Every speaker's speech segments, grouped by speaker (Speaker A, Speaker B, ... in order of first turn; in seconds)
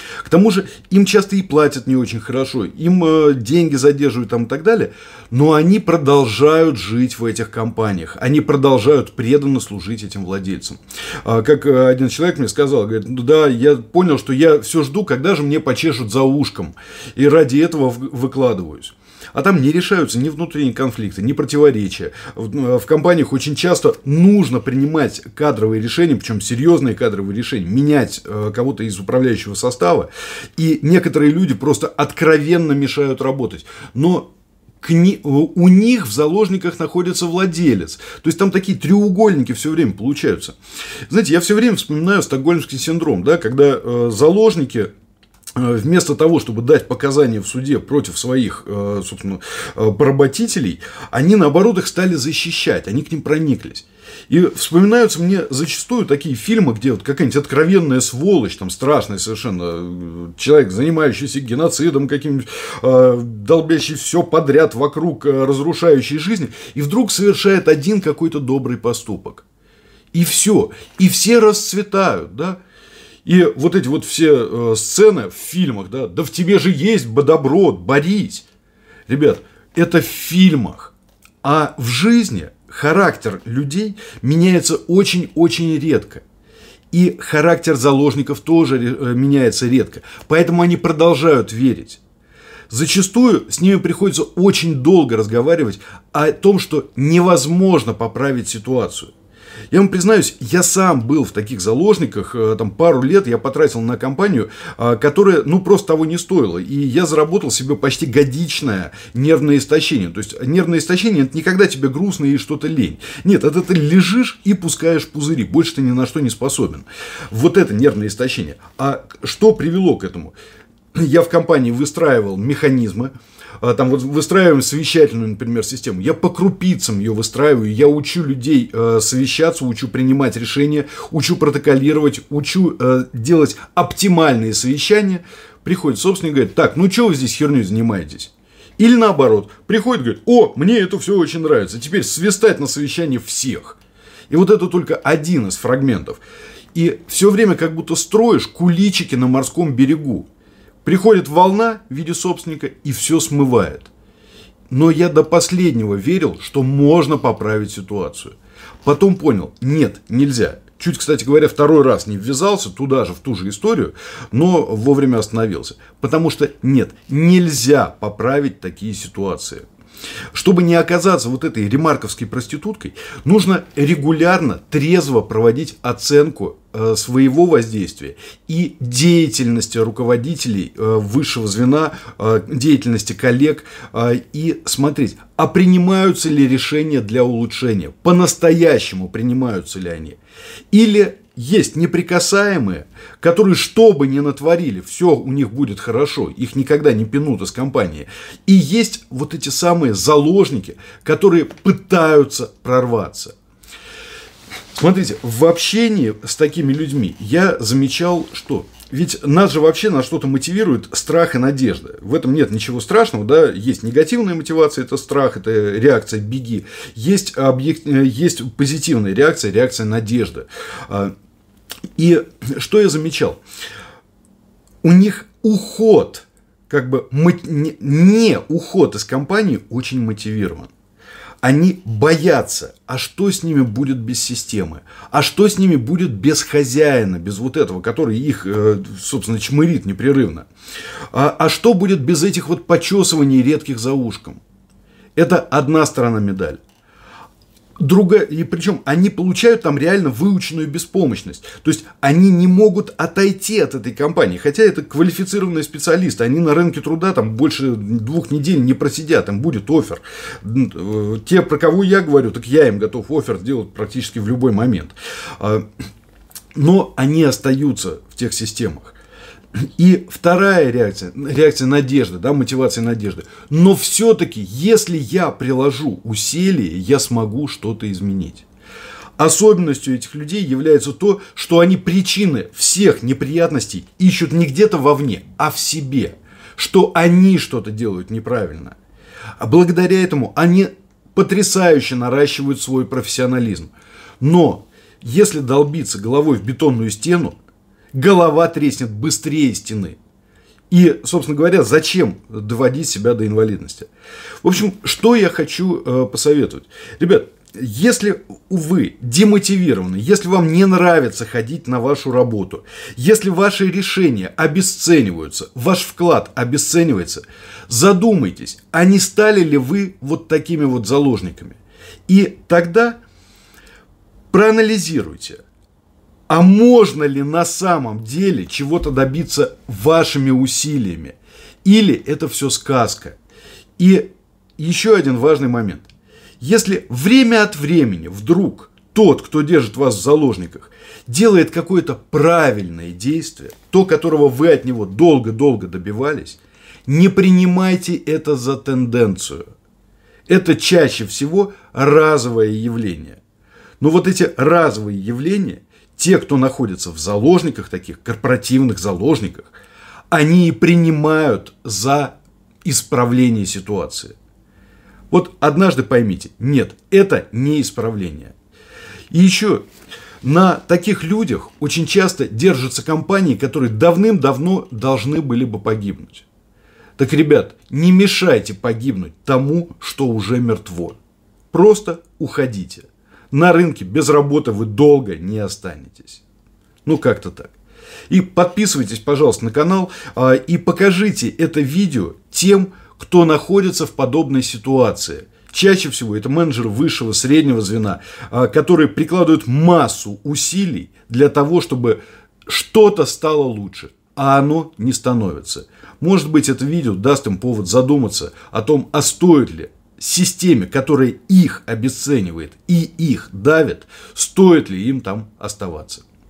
Speaker A: 0.2-34.3, 34.8-40.6, 41.1-44.9, 45.6-69.5, 70.1-72.6, 73.2-78.5, 79.1-86.2, 86.9-92.0, 92.7-99.1, 99.7-120.3, 120.9-143.8, 144.3-146.2, 146.7-150.3, 150.8-153.9, 154.7-169.7, 170.3-190.2, 190.7-203.3, 204.8-221.1, 222.0-223.4, 224.8-230.7, 231.4-240.5, 241.1-244.4, 245.2-246.6, 247.8-265.7, 266.5-269.0, 269.6-278.4, 279.2-288.8, 289.4-297.4, 297.9-300.0, 300.7-303.9, 304.4-323.0, 324.3-325.4, 326.3-333.2, 333.8-335.9, 336.4-349.4, 350.3-353.2, 353.8-359.5, 360.1-364.1, 365.1-368.3, 369.1-369.6, 370.2-376.3, 377.0-381.0, 381.5-386.2, 386.9-387.5, 388.1-416.0